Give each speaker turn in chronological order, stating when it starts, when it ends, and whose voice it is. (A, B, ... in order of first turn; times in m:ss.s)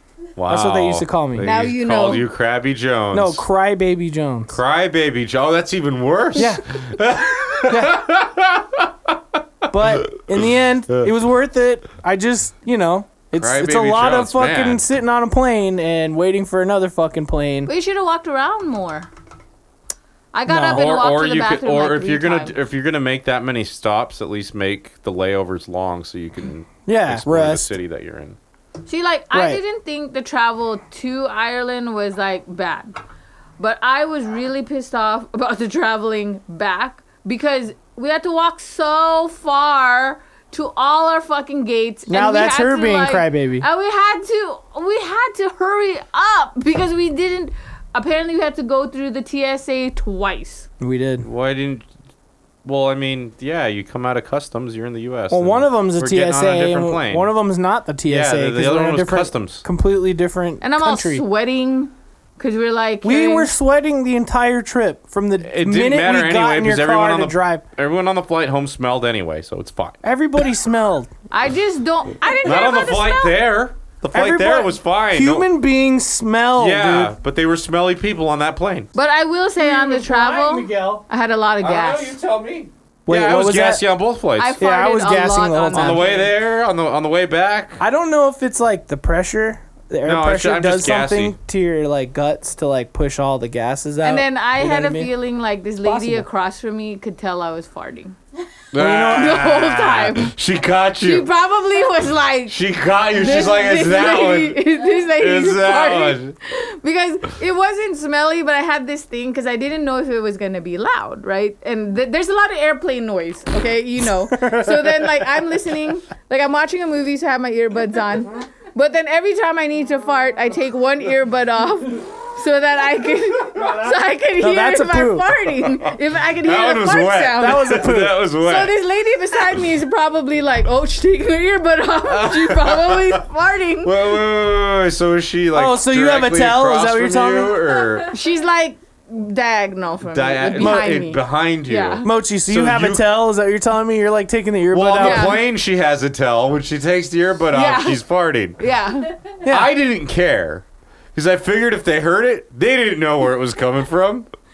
0:00.4-0:03.4 A
0:00.5-0:01.5 B
0:01.4-0:02.3 C
0:03.1-0:04.6 B
0:04.5-0:09.1 A
0:06.4-0:06.6 B
0:07.7-0:08.0 B
0:09.7-0:17.7 B
0:13.4-0:14.8 A
0:17.6-0:19.1 C
0:20.3-0:22.5 C
0:20.5-0:20.8 B
0:20.7-0:28.4 A
0:26.9-0:27.7 B
0:28.8-0:32.9 C
0:29.3-0:29.6 B
0:33.6-0:50.7 C
0:42.1-0:43.6 B
0:50.8-0:51.3 B
0:51.2-0:51.8 A
0:52.6-0:57.3 A
0:55.3-1:01.2 B
0:58.1-0:59.6 A
1:00.6-1:03.5 C
1:03.0-1:07.6 B
1:05.4-1:10.0 A
1:10.0-1:11.1 B
1:11.3-1:13.4 C
1:12.4-1:15.5 A
1:14.1-1:17.2 B
1:16.6-1:18.9 A
1:18.9-1:22.1 C
1:19.6-1:21.0 B
1:21.6-1:24.6 A
1:23.1-1:23.8 B
1:24.4-1:26.2 C
1:24.6-1:26.3 B
1:25.7-1:27.8 A
1:27.8-1:35.1 B
1:30.0-1:31.4 A
1:34.0-1:38.2 C
1:35.8-1:36.2 B
1:38.7-1:41.3 A
1:38.8-1:39.4 B
1:39.0-1:40.3 C
1:41.0-1:42.6 C
1:42.5-1:44.6 A
1:43.1-2:14.2 C
1:45.2-1:46.3 A
1:54.3-1:55.0 B
2:04.4-2:05.3 B
2:06.4-2:08.7 A
2:07.4-2:08.2 B
2:12.1-2:13.2 A
2:13.8-2:18.1 A
2:15.5-2:17.8 B
2:18.1-2:22.1 C
2:20.0-2:23.1 A
2:20.6-2:21.0 B
2:22.0-2:25.4 B
2:24.7-2:28.6 A
2:25.0-2:25.4 C
2:27.5-2:28.0 C
2:28.6-2:29.1 C
2:29.4-2:29.7 B
2:29.4-2:30.6 A
2:31.1-2:34.3 A